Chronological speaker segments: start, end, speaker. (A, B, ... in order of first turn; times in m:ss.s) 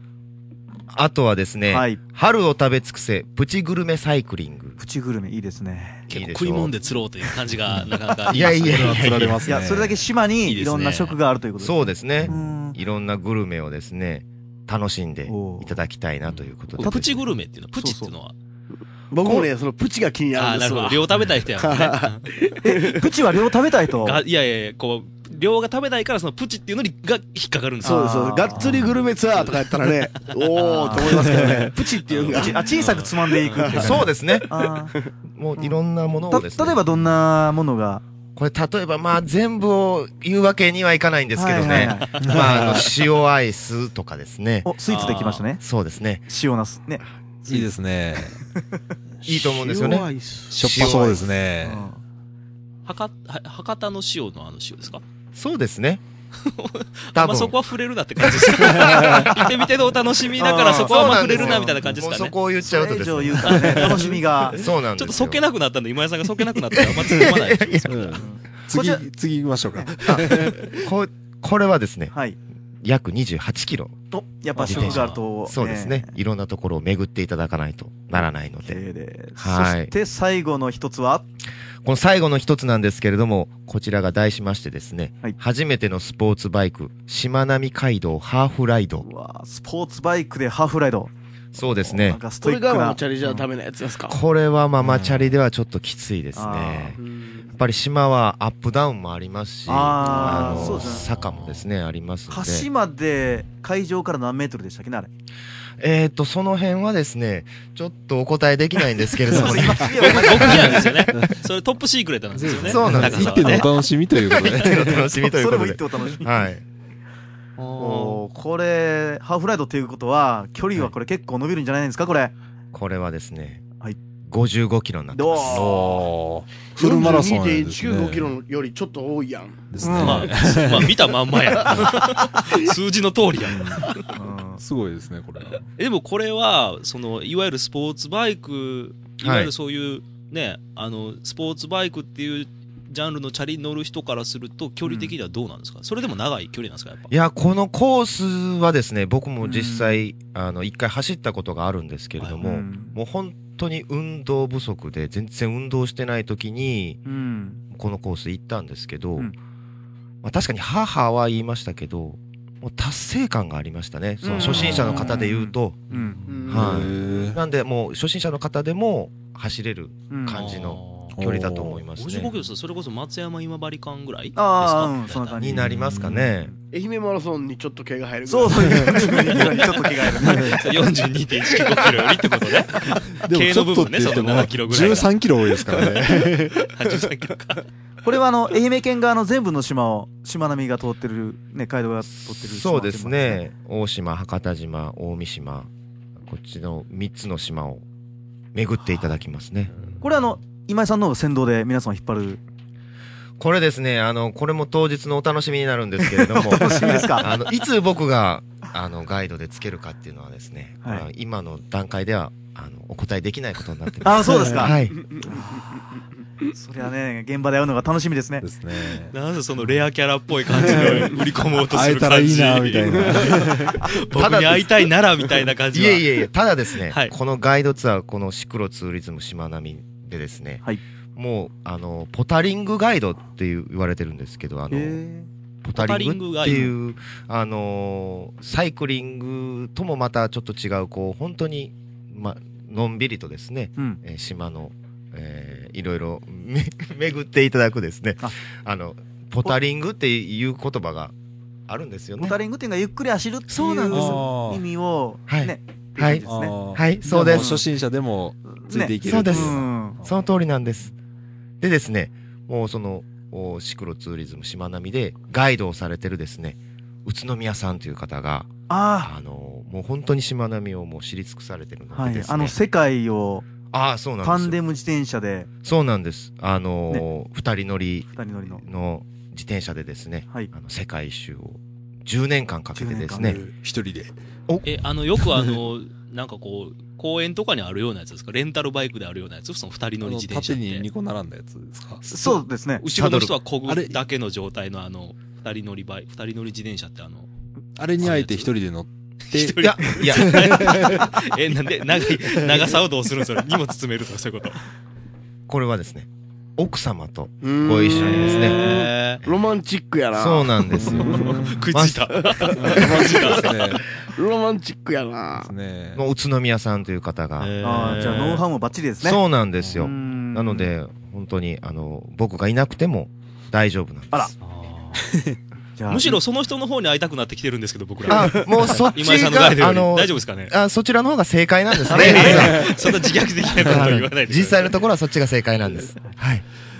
0:00.9-0:04.8 A
0:01.7-0:02.0 B
0:04.8-0:06.1 B
0:06.1-0:06.7 A
0:06.1-0:09.1 C
0:08.3-0:09.5 A
0:08.3-0:10.0 D
0:09.4-0:12.8 B
0:10.4-0:11.2 C
0:11.6-0:17.2 A
0:12.2-0:12.5 D
0:15.3-0:15.8 B
0:16.7-0:18.3 C
0:16.8-0:17.2 B
0:17.8-0:18.1 B
0:19.1-0:21.0 E
0:20.3-0:22.4 C
0:21.6-0:23.2 E
0:22.6-0:24.2 B
0:24.0-0:28.1 C
0:27.8-0:28.7 B
0:27.8-0:32.7 E
0:29.3-0:30.3 C
0:30.6-0:31.7 B
0:32.1-0:33.8 C
0:32.3-0:34.9 B
0:33.5-0:34.1 E
0:33.7-0:34.5 A
0:35.3-0:36.9 A
0:36.3-0:38.0 B
0:38.4-0:44.7 A
0:41.3-0:42.2 B
0:42.2-0:42.9 D
0:44.6-0:45.6 B
0:44.9-0:45.4 C
0:45.6-0:46.2 A
0:46.3-0:47.0 B
0:47.4-0:48.4 D
0:49.2-0:51.2 A
0:49.3-0:50.6 E
0:50.5-0:51.8 D
0:51.6-0:52.0 B
0:52.8-0:55.0 C
0:55.3-0:56.0 A
0:56.4-1:02.3 C
0:57.1-0:57.5 A
0:58.2-0:59.2 A
0:58.9-0:59.5 B
1:00.4-1:01.8 B
1:00.5-1:04.0 A
1:02.6-1:04.6 B
1:03.4-1:08.1 C
1:04.5-1:05.4 A
1:06.8-1:08.0 A
1:07.9-1:10.6 D
1:08.2-1:09.0 B
1:09.7-1:10.4 B
1:10.0-1:12.1 A
1:12.1-1:12.4 B
1:12.8-1:13.9 A
1:14.1-1:16.1 B
1:14.6-1:18.8 A
1:14.7-1:15.2 C
1:18.6-1:21.2 B
1:19.4-1:19.9 A
1:21.8-1:29.0 A
1:29.0-1:33.4 B
1:31.5-1:32.2 A
1:32.4-1:34.2 E
1:34.1-1:37.0 A
1:34.8-1:35.4 D
1:36.3-1:37.0 B
1:37.0-1:37.6 E
1:37.5-1:42.7 A
1:39.7-1:41.1 B
1:40.0-1:40.7 E
1:40.9-1:41.6 C
1:42.3-1:45.1 B
1:45.8-1:50.8 A
1:49.3-1:50.9 B
1:49.9-1:53.8 C
1:50.4-1:51.4 D
1:52.4-1:55.1 D
1:52.6-1:56.6 A
1:55.2-1:56.3 B
1:57.6-1:58.2 C
1:57.8-2:02.3 B
2:02.7-2:03.6 A
2:04.2-2:05.8 A
2:05.1-2:05.8 B
2:05.5-2:08.4 D
2:05.7-2:05.9 E
2:06.7-2:09.7 E
2:09.7-2:11.0 D
2:09.8-2:10.3 B
2:10.0-2:14.0 C
2:10.5-2:12.6 E
2:11.6-2:11.9 D
2:13.4-2:13.9 D
2:14.1-2:14.6 B
2:14.6-2:15.7 D
2:15.8-2:27.1 C
2:19.2-2:19.5 A
2:24.8-2:25.1 B
2:27.1-2:37.0 A
2:29.4-2:30.0 B
2:32.4-2:33.0 B
2:37.0-2:37.6 B
2:37.7-2:39.3 A
2:40.2-2:45.9 A
2:44.2-2:46.2 B
2:44.3-2:44.8 C
2:44.4-2:45.2 D
2:46.0-2:46.5 C
2:46.3-2:47.3 E
2:46.5-2:52.3 A
2:46.5-2:47.4 D
2:50.1-2:50.4 B
2:50.3-2:51.2 C
2:51.2-2:51.8 D
2:52.0-2:55.4 C
2:54.4-2:55.7 B
2:55.4-2:56.5 A
2:55.6-2:56.3 D
2:56.7-2:59.8 E
2:58.3-3:00.7 B
3:00.2-3:00.6 D
3:00.5-3:05.1 C
3:03.2-3:06.6 D
3:06.5-3:07.6 C
3:08.0-3:13.4 B
3:12.1-3:15.7 A
3:16.2-3:17.8 A
3:18.5-3:19.9 A
3:20.0-3:22.4 B
3:23.4-3:35.0 A
3:26.2-3:27.3 B
3:34.0-3:35.9 B
3:35.1-3:35.4 E
3:36.5-3:38.4 B
3:38.4-3:39.1 D
3:39.1-3:46.3 C
3:40.5-3:43.9 D
3:42.9-3:43.5 E
3:44.1-3:44.8 A
3:45.7-3:55.0 A
3:46.8-3:47.1 C
3:54.7-3:55.3 B
3:55.6-4:11.1 A
3:55.7-3:56.7 C
3:56.4-3:56.7 B
4:11.7-4:12.4 A
4:12.2-4:17.6 B
4:13.5-4:14.2 A
4:13.9-4:14.6 D
4:15.3-4:17.6 A
4:16.2-4:20.0 D
4:18.5-4:20.0 B
4:19.0-4:20.9 A
4:21.6-4:28.5 A
4:28.7-4:29.1 B
4:29.0-4:32.6 A
4:31.9-4:33.4 B
4:33.7-4:34.6 A
4:34.2-4:35.5 B
4:35.6-4:43.4 A
4:38.1-4:38.6 B
4:42.7-4:43.5 B
4:43.2-4:44.1 D
4:44.6-4:50.9 C
4:50.0-4:52.0 D
4:52.0-4:53.3 A
4:52.1-4:52.8 B
4:52.8-4:57.3 C
4:53.7-4:54.0 D
4:57.8-5:01.1 D
4:58.0-4:58.5 C
4:59.3-5:04.6 C
4:59.6-5:00.7 A
5:02.3-5:02.7 E
5:05.5-5:08.6 A
5:07.4-5:11.5 E
5:08.1-5:09.2 C
5:10.1-5:12.1 A
5:10.7-5:11.6 D
5:11.2-5:13.6 C
5:12.2-5:15.5 E
5:12.5-5:13.8 D
5:15.4-5:16.0 D
5:16.0-5:18.3 A
5:17.4-5:18.4 C
5:17.6-5:19.2 B
5:19.0-5:24.3 A
5:19.6-5:19.9 D
5:19.8-5:20.7 B
5:24.4-5:25.0 C
5:25.8-5:26.2 B
5:25.9-5:30.5 C
5:28.1-5:32.8 A
5:31.8-5:34.7 C
5:31.9-5:32.6 B
5:32.3-5:32.7 D
5:33.6-5:36.4 A